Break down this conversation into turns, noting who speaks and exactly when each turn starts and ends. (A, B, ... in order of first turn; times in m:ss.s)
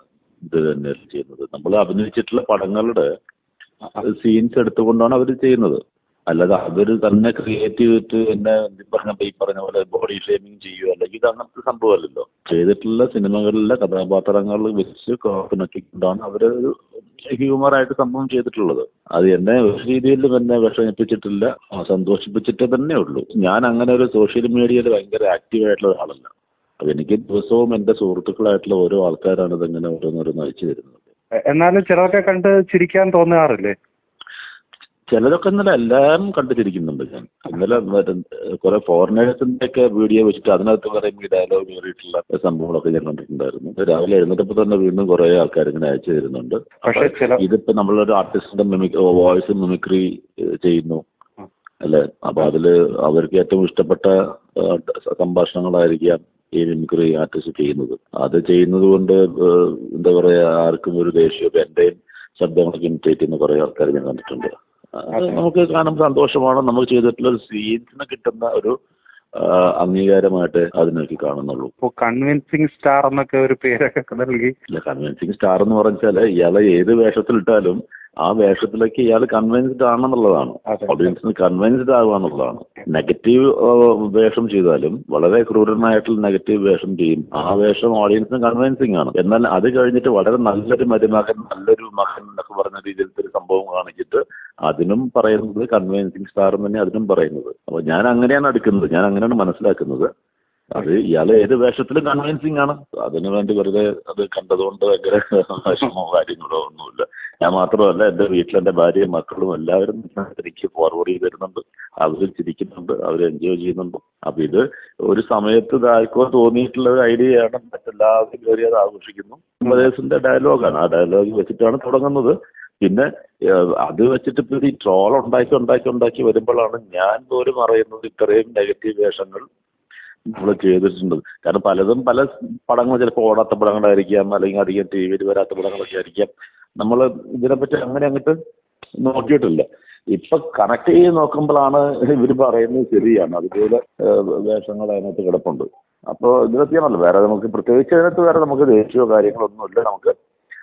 0:00.4-0:03.0 A
0:04.0-0:31.0 A
0:31.4-0:33.8 B
0:35.1-0:51.0 A
0:46.8-0:47.4 B
0:51.8-1:08.7 A
1:09.3-1:11.7 A
1:11.8-1:14.5 B
1:14.7-1:40.1 A
1:40.7-2:09.4 A
2:10.3-2:18.4 A
2:19.0-2:30.1 A